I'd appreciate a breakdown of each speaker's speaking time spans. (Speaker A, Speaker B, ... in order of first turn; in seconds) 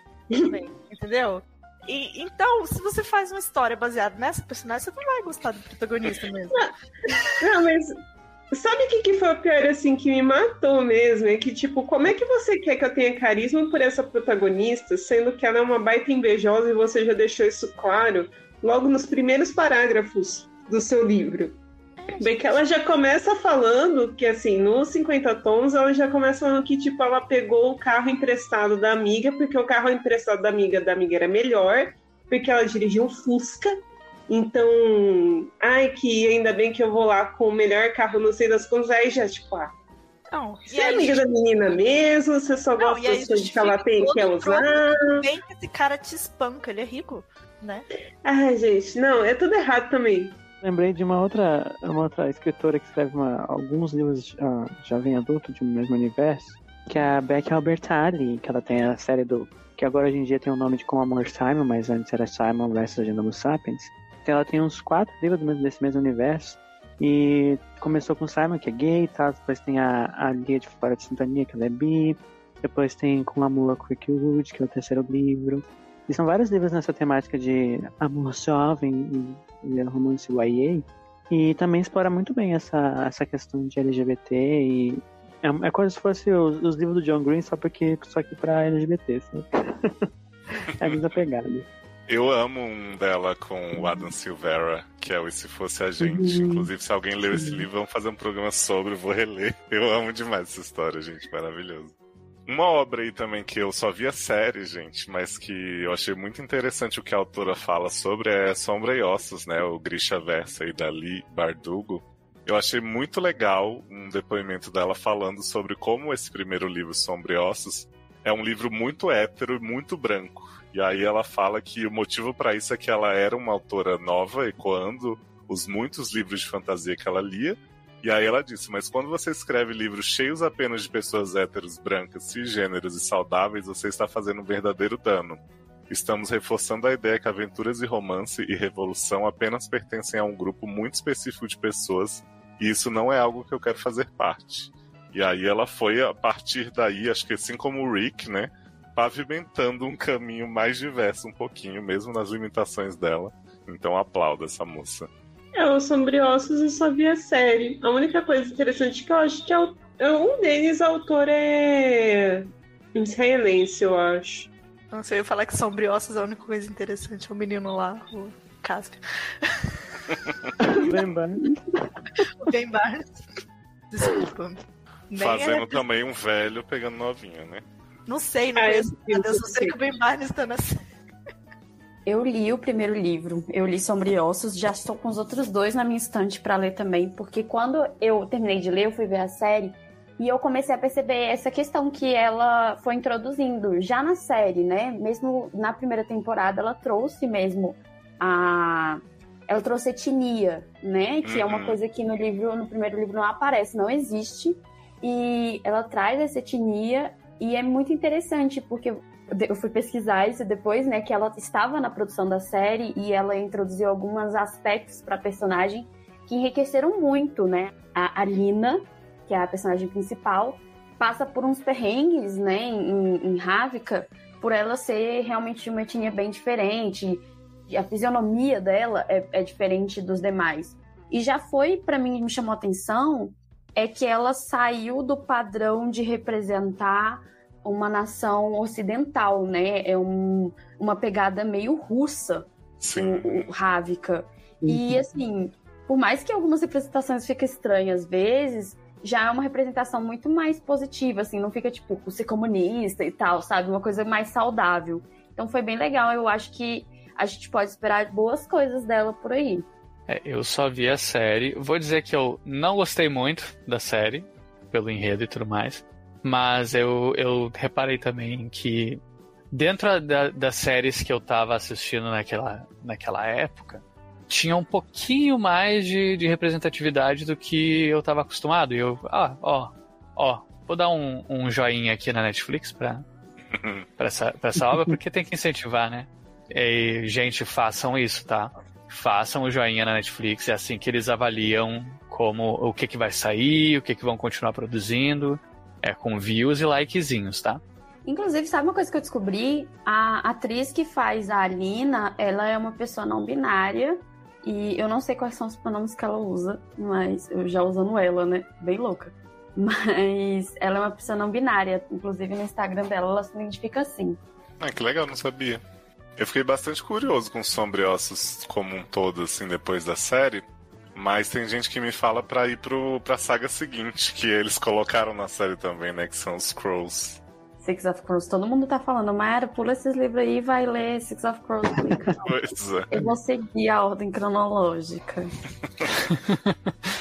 Speaker A: 0.5-6.6, 22.0-22.6, 40.3-41.2, 42.8-47.9, 164.9-169.7, 172.4-173.1, 173.9-175.8, 178.1-180.8
Speaker B: 7.4-8.0, 8.5-21.6, 22.2-39.7, 40.7-45.3, 48.2-50.4, 155.6-164.5, 178.6-179.8
Speaker C: 50.6-90.1, 90.7-91.7, 96.0-96.7, 97.3-97.7, 170.6-171.9, 244.6-245.0, 331.8-332.2
Speaker D: 92.1-101.9, 102.5-155.1, 175.2-177.6, 201.2-201.8, 242.8-243.5, 283.5-283.9, 314.6-315.6, 316.2-327.2, 332.2-332.9
Speaker E: 182.1-259.7, 298.1-314.2, 327.6-332.3, 332.9-335.3
Speaker F: 260.1-269.0, 269.5-283.0, 284.0-297.6, 336.1-336.7